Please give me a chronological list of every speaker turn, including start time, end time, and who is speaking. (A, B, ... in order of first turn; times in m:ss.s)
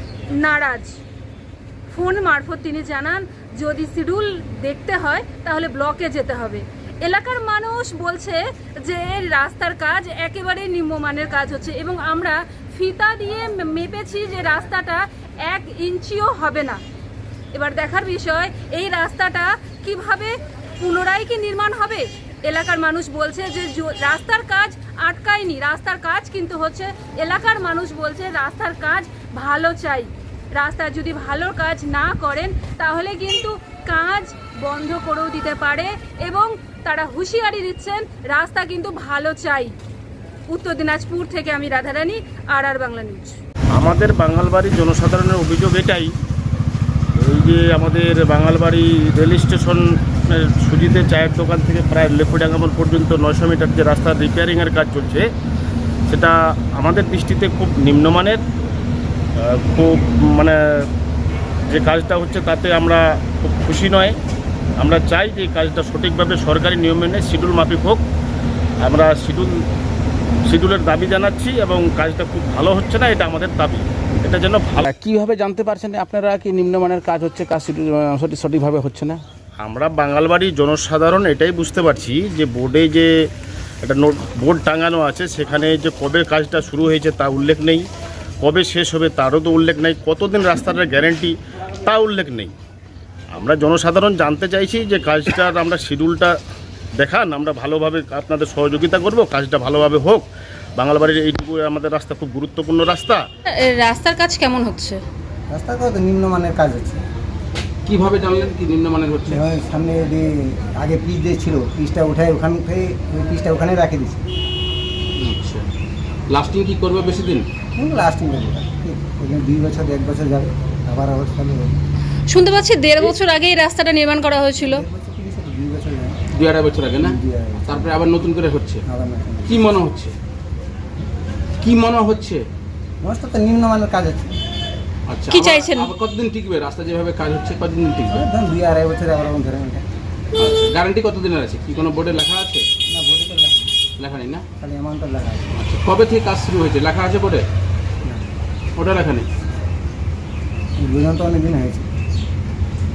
0:00.3-0:01.0 A
0:01.9-0:16.8 A
0:17.5-0:39.7 A
0:40.5-0:43.4 A
0:43.7-0:46.1 B
0:47.2-0:55.3 B
0:56.1-0:58.4 B
0:59.4-1:00.6 B
1:01.7-1:04.2 B
1:04.8-1:08.0 B
1:08.8-1:09.6 B
1:10.5-1:14.8 B
1:14.8-1:19.2 C
1:19.6-1:23.1 B
1:23.8-1:27.9 B
1:28.4-1:32.5 B
1:33.3-1:36.4 B
1:37.0-1:40.3 B
1:40.8-1:43.2 B
1:43.6-1:45.0 A
1:45.5-1:47.0 D
1:47.9-1:49.4 C
1:49.3-1:54.2 D
1:55.2-1:55.6 C
1:56.3-1:57.4 C
1:57.8-2:01.8 D
2:02.3-2:04.8 A
2:04.6-2:06.2 D
2:06.3-2:08.8 C
2:07.0-2:07.9 D
2:08.9-2:09.7 D
2:09.4-2:10.1 C
2:11.6-2:12.4 C
2:13.0-2:14.3 D
2:15.1-2:18.2 C
2:15.3-2:15.9 A
2:18.1-2:19.9 D
2:20.4-2:22.6 C
2:22.9-2:23.7 D
2:24.0-2:24.4 C
2:24.6-2:25.6 D
2:25.6-2:27.4 C
2:28.0-2:28.3 D
2:28.8-2:29.2 C
2:30.8-2:31.9 D